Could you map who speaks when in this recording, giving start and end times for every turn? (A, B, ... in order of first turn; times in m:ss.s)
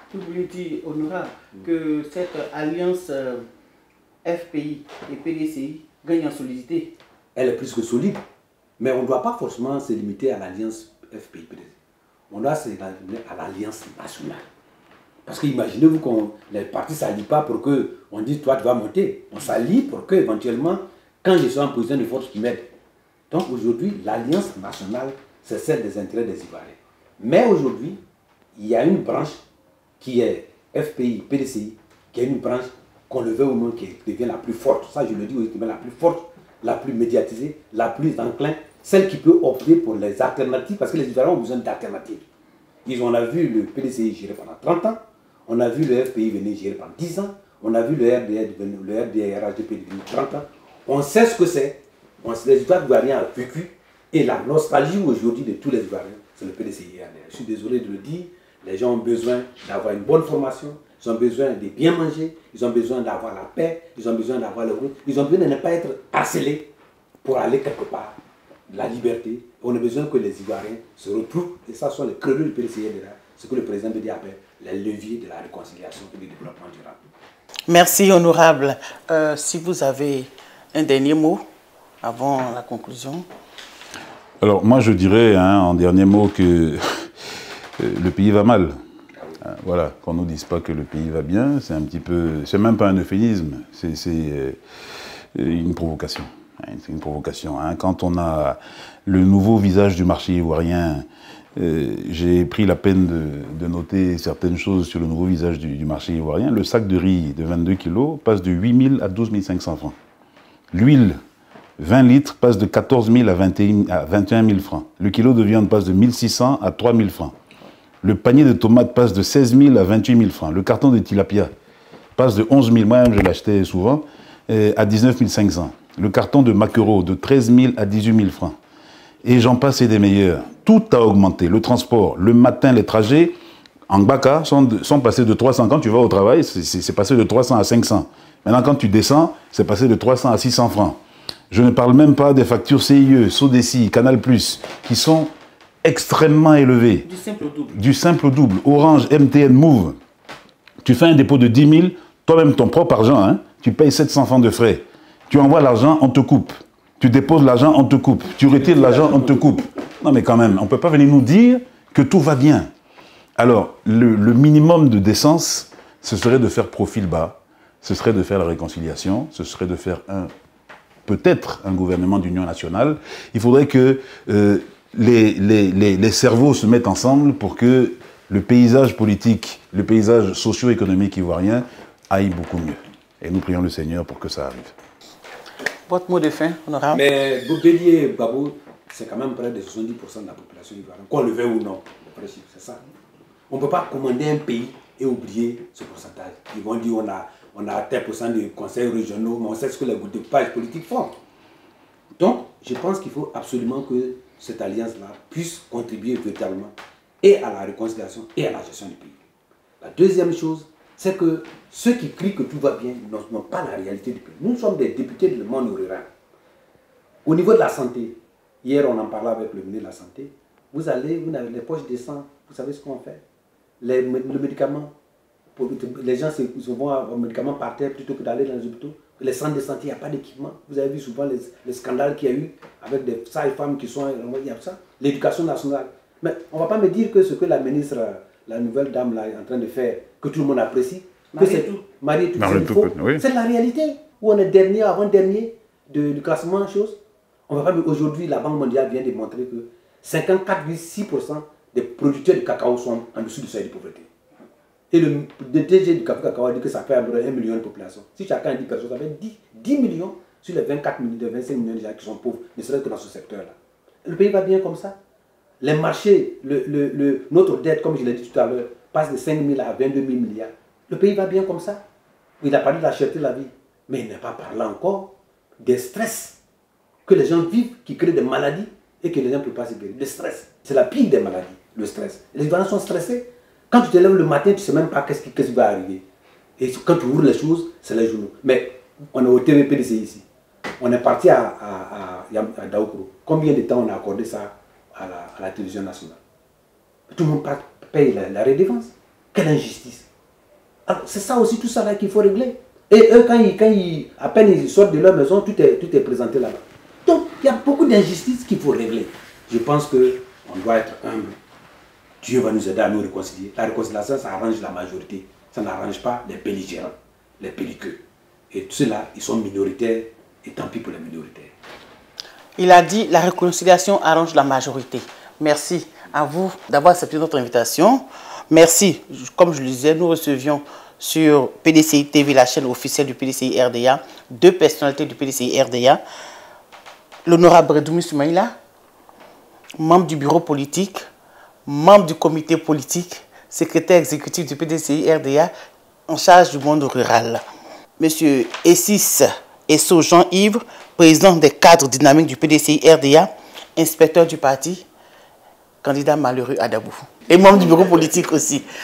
0:00.1-0:03.4 A
0:04.2-0:06.9 A
0:07.4-0:08.2 B
0:08.8-0:11.8 B
0:12.3-0:14.5 B
0:15.3-0:22.7 B
0:23.3-0:28.0 B
0:28.6-0:29.4 B
0:30.0-0:42.2 B
0:42.8-1:06.7 B
1:07.2-1:08.2 B
1:08.7-1:17.0 B
1:17.7-1:21.4 A
1:22.0-1:23.3 A
1:24.4-1:27.1 C
1:27.8-1:28.8 C
1:29.4-1:34.6 C
1:35.4-1:50.0 C
1:50.7-1:51.2 C
1:51.8-1:57.4 C
1:58.0-2:01.5 C
2:02.2-2:08.6 C
2:09.2-2:13.4 C
2:13.9-2:21.0 C
2:21.5-2:25.3 C
2:25.8-2:27.1 C
2:27.0-2:27.8 A
2:27.7-2:30.0 C
2:30.8-2:42.7 C
2:38.4-2:39.6 B
2:43.4-2:50.3 C
2:51.1-3:04.8 C
3:05.9-3:07.0 A
3:06.9-3:12.8 B
3:13.5-3:21.2 B
3:22.2-3:29.2 B
3:29.8-3:36.1 B
3:37.2-3:43.2 B
3:43.8-3:44.9 B
3:45.6-4:07.0 B
4:01.3-4:01.8 A
4:02.4-4:03.2 C
4:07.5-4:14.1 B
4:14.9-4:25.0 B
4:25.6-4:31.8 B
4:32.4-4:36.4 B
4:37.1-4:46.0 B
4:46.6-4:50.2 B
4:50.8-4:56.2 B
4:57.1-5:00.1 B
5:00.9-5:11.4 B
5:12.2-5:21.5 B
5:22.6-5:36.0 A
5:37.3-5:38.5 A
5:39.8-5:41.0 A
5:41.7-5:45.5 A
5:46.1-5:47.4 A
5:48.0-5:54.9 A
5:55.8-5:58.6 A